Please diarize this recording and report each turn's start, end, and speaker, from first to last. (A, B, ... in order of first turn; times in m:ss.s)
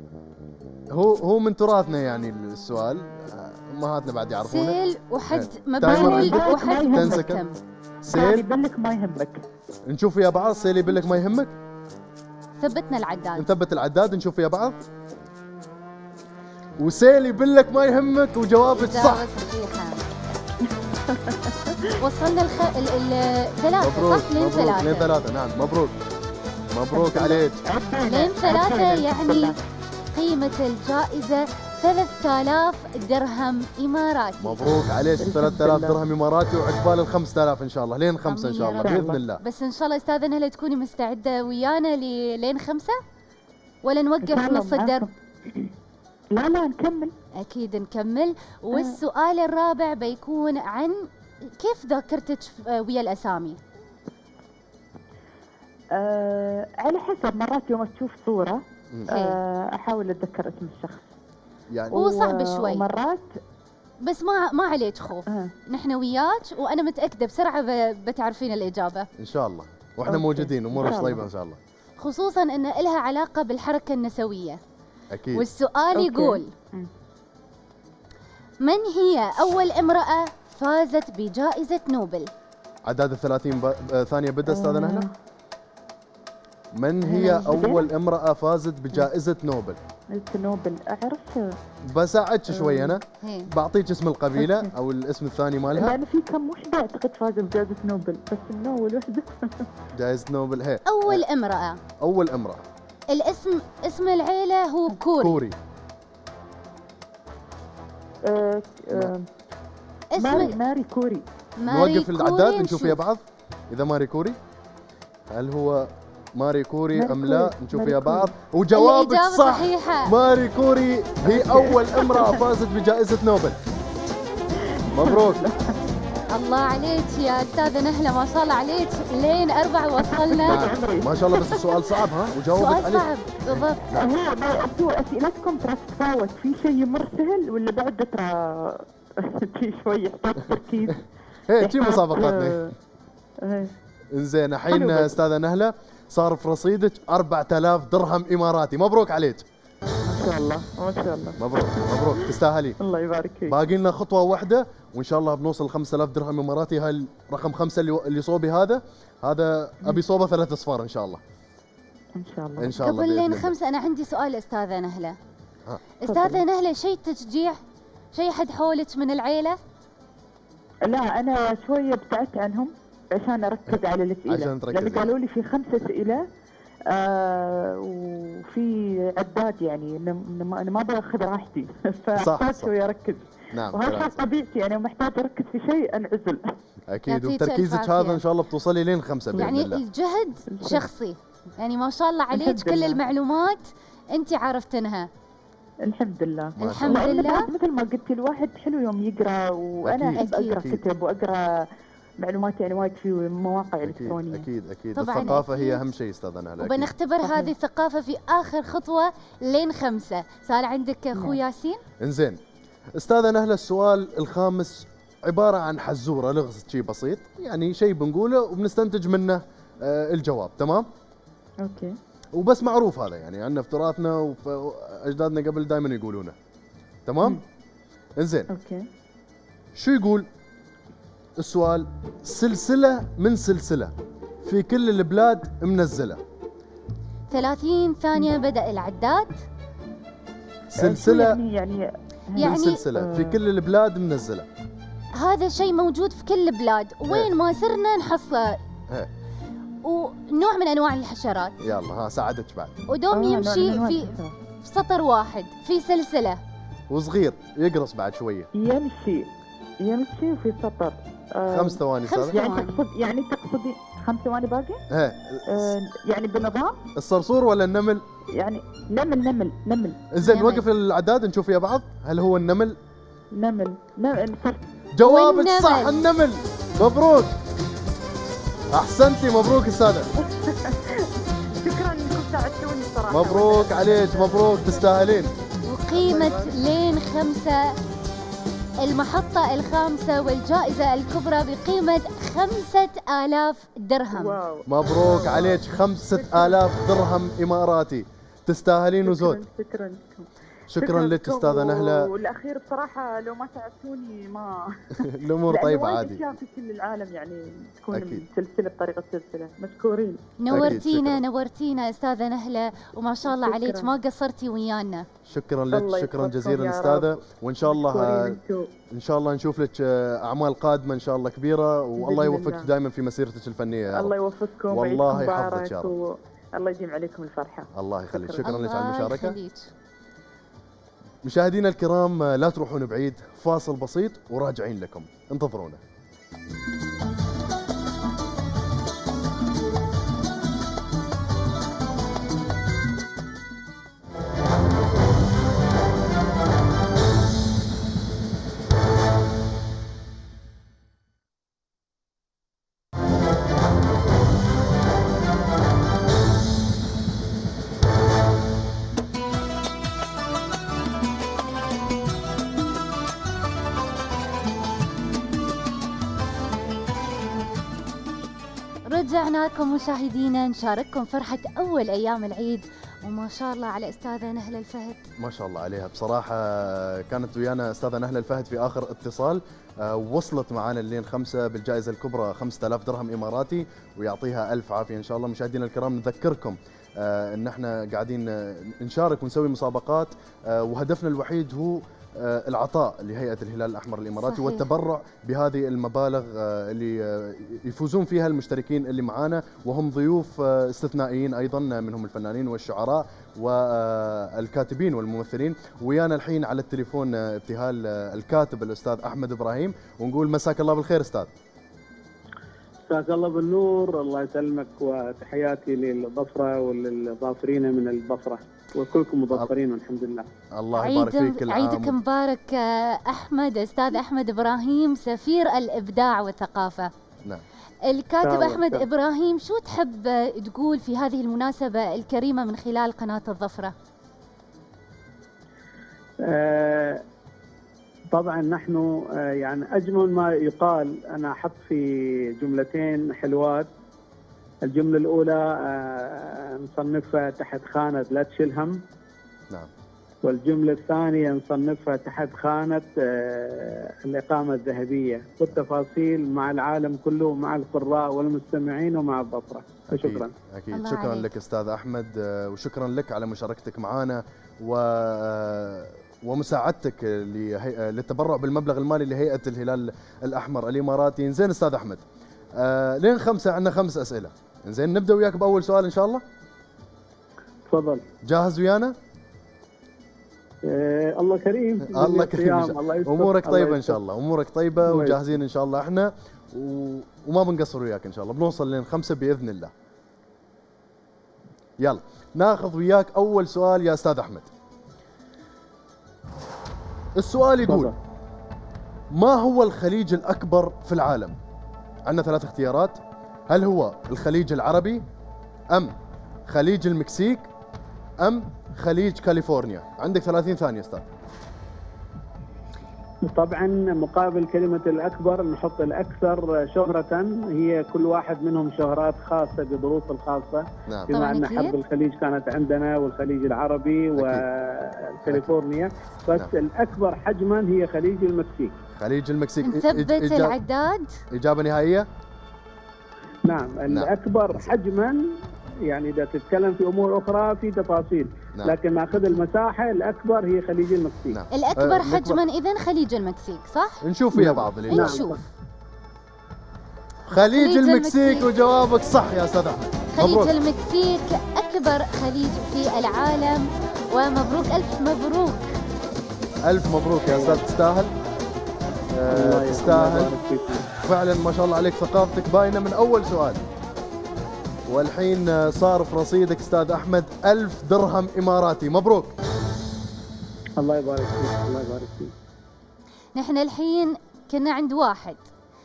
0:00.9-0:07.4 A
0:04.5-0:07.6 B
0:05.8-0:07.3 C
0:08.0-0:08.4 A
0:08.1-0:09.4 C
0:09.9-0:11.6 A
0:12.6-0:13.5 B
0:13.4-0:14.8 A
0:16.8-0:19.2 A
0:18.6-0:20.0 B
0:21.1-0:21.8 C
0:22.0-0:25.1 B
0:23.8-0:26.0 A
0:26.7-0:27.6 A
0:26.9-0:29.6 C
0:28.1-0:29.6 B
0:30.1-0:34.6 B
0:34.4-0:39.4 A
0:35.2-0:36.0 C
0:38.2-0:43.0 B
0:38.8-0:39.2 C
0:43.8-0:45.1 B
0:44.2-0:45.7 C
0:46.3-0:47.1 C
0:47.4-0:53.6 B
0:56.0-1:01.0 C
0:59.1-0:59.4 B
1:01.7-1:02.0 A
1:01.9-1:03.4 C
1:01.9-1:02.8 B
1:04.0-1:09.1 B
1:09.2-1:11.6 A
1:10.1-1:11.2 C
1:12.0-1:14.6 B
1:15.1-1:15.5 A
1:15.3-1:16.5 B
1:16.0-1:16.9 C
1:18.6-1:22.3 B
1:22.9-1:25.1 A
1:24.5-1:25.1 C
1:26.8-1:29.8 A
1:27.1-1:27.9 C
1:30.1-1:31.6 C
1:31.9-1:36.0 A
1:32.5-1:33.0 C
1:33.2-1:33.5 B
1:34.4-1:34.7 C
1:35.7-1:39.6 C
1:40.0-1:41.2 A
1:40.9-1:41.8 B
1:42.0-1:42.6 A
1:43.1-1:45.4 B
1:45.2-1:45.6 A
1:48.2-1:49.3 C
1:50.1-1:50.6 B
1:50.2-1:51.3 C
1:51.6-1:53.0 B
1:51.6-1:54.4 A
1:55.3-2:03.6 A
1:57.0-1:58.3 C
1:58.7-2:00.1 B
2:01.3-2:02.4 C
2:04.6-2:05.7 C
2:04.9-2:05.4 A
2:06.3-2:10.6 B
2:10.0-2:11.6 C
2:10.4-2:14.1 A
2:12.6-2:13.9 B
2:13.9-2:21.1 C
2:21.5-2:22.7 A
2:21.6-2:22.7 C
2:23.4-2:23.7 C
2:24.1-2:29.5 A
2:24.7-2:25.2 C
2:30.1-2:33.6 C
2:31.4-2:32.8 A
2:33.5-2:41.2 A
2:42.2-2:42.8 C
2:42.6-2:43.6 A
2:42.8-2:45.2 B
2:46.0-2:47.6 B
2:46.1-2:46.4 C
2:48.1-2:49.6 B
2:50.9-2:56.2 C
2:53.7-2:55.1 A
2:56.9-3:06.4 C
3:02.2-3:02.7 A
3:03.5-3:04.2 A
3:06.9-3:09.8 A
3:07.1-3:08.2 B
3:09.4-3:15.1 B
3:10.6-3:10.9 C
3:12.3-3:13.0 C
3:15.8-3:21.5 C
3:16.6-3:17.4 A
3:16.6-3:17.5 B
3:19.8-3:20.8 A
3:20.2-3:20.6 B
3:22.2-3:24.5 C
3:23.8-3:26.9 A
3:25.0-3:25.8 B
3:26.6-3:31.8 B
3:27.2-3:27.5 C
3:31.1-3:31.4 C
3:32.0-3:32.4 A
3:33.0-3:40.9 A
3:41.6-3:42.0 C
3:42.3-3:46.4 A
3:47.1-3:47.4 A
3:48.2-3:48.5 A
3:48.5-3:48.8 C
3:49.8-3:50.3 A
3:51.4-3:56.2 A
3:57.3-3:59.4 B
4:00.7-4:01.4 A
4:00.8-4:03.4 C
4:02.4-4:02.8 B
4:02.4-4:04.5 A
4:05.2-4:08.6 B
4:09.8-4:11.6 B
4:11.6-4:12.8 A
4:12.9-4:16.4 B
4:13.1-4:14.4 C
4:16.9-4:18.5 A
4:18.6-4:19.3 C
4:19.8-4:21.8 C
4:21.5-4:22.5 A
4:22.1-4:22.8 B
4:22.3-4:24.8 C
4:24.9-4:25.8 A
4:25.5-4:26.8 C
4:27.0-4:28.0 A
4:28.4-4:30.0 C
4:30.1-4:32.8 A
4:30.2-4:30.6 B
4:33.4-4:34.6 C
4:35.0-4:37.4 A
4:35.0-4:36.0 B
4:38.7-4:40.1 A
4:40.2-4:41.1 C
4:41.6-4:45.1 C
4:43.1-4:45.3 A
4:45.7-4:47.7 B
4:45.9-4:46.5 A
4:48.8-4:54.4 B
4:54.1-4:56.6 C
4:54.7-4:59.4 A
4:59.0-5:10.7 C
5:00.7-5:02.1 A
5:05.0-5:06.3 A
5:07.9-5:08.2 A
5:10.4-5:15.1 B
5:10.5-5:11.2 A
5:13.2-5:13.9 C
5:15.2-5:18.4 A
5:15.7-5:18.7 C
5:18.9-5:24.1 A
5:22.0-5:22.7 C
5:24.0-5:28.4 C
5:24.7-5:25.9 A
5:27.8-5:29.4 A
5:28.4-5:29.7 B
5:31.2-5:35.8 A
6:08.9-6:15.0 B
6:15.2-6:51.3 A
6:34.2-6:34.7 B
6:52.9-7:00.3 D
7:00.5-7:02.0 A
7:00.8-7:06.9 B
7:07.9-7:13.8 B
7:08.2-7:08.9 D
7:16.2-7:17.0 D
7:18.1-7:23.7 D
7:24.6-7:28.8 D
7:30.2-7:40.3 D
7:39.9-7:52.0 A
7:40.7-7:41.3 B
7:52.6-7:56.2 A
7:57.7-7:58.0 D
7:58.2-7:59.0 A
8:00.6-8:04.0 D
8:01.8-8:09.7 A
8:04.8-8:05.2 D
8:11.8-8:14.5 A
8:17.2-8:17.9 A
8:17.7-8:17.9 D
8:19.1-8:21.4 A
8:22.1-8:23.0 A
8:23.5-8:25.0 A
8:26.5-8:27.5 A
8:28.2-8:31.1 A
8:33.3-8:48.8 D
8:41.1-8:41.8 B
8:44.2-8:44.4 A
8:45.2-8:45.5 A
8:49.0-8:50.6 A
8:49.6-8:51.2 B
8:51.3-8:52.1 A
8:53.5-8:55.2 D
8:53.9-8:54.8 A
8:55.9-9:01.4 D
9:01.3-9:02.4 A
9:01.5-9:04.0 B
9:04.0-9:05.3 A
9:04.4-9:05.3 D
9:04.9-9:05.4 B
9:07.3-9:10.5 A
9:07.4-9:08.5 B
9:10.1-9:15.6 B
9:16.7-9:18.1 A
9:17.3-9:17.6 D
9:19.2-9:20.3 A
9:19.3-9:20.9 D
9:21.0-9:23.6 A
9:24.9-9:29.3 A
9:30.8-9:32.3 D
9:33.4-9:35.4 B